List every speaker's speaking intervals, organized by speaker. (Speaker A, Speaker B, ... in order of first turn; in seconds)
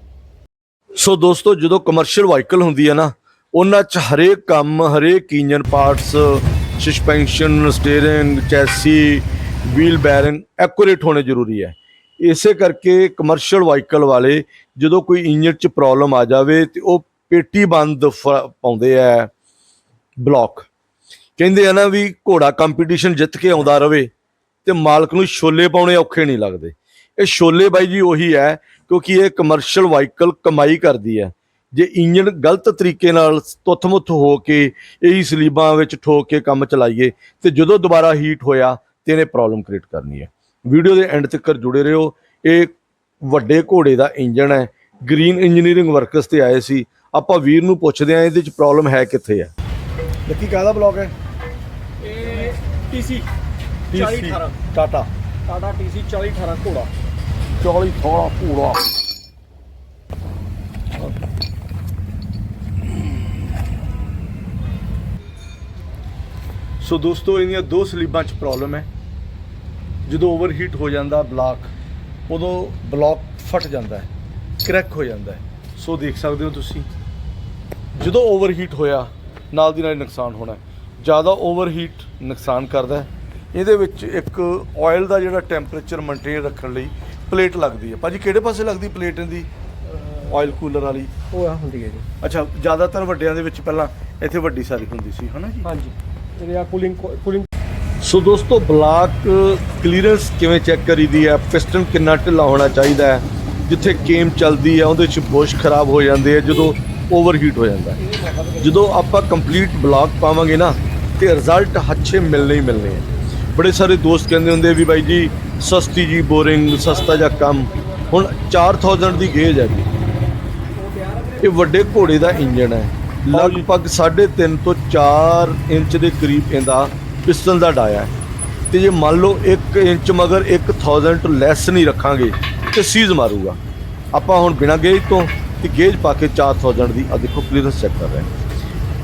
Speaker A: 0.9-19.3, 20.2-20.7, 21.4-24.1, 24.6-49.5, 50.3-51.1, 53.9-55.1, 57.6-58.8, 66.8-68.9, 70.1-71.7, 72.3-74.1, 74.6-76.9, 78.0-89.5, 90.2-91.1, 92.2-95.7, 98.0-108.0, 108.6-119.9, 121.4-128.1, 128.7-133.6, 134.1-138.3
Speaker B: 52.0-53.3, 53.9-54.5, 55.5-56.9, 91.3-92.0, 95.6-97.5, 120.8-121.5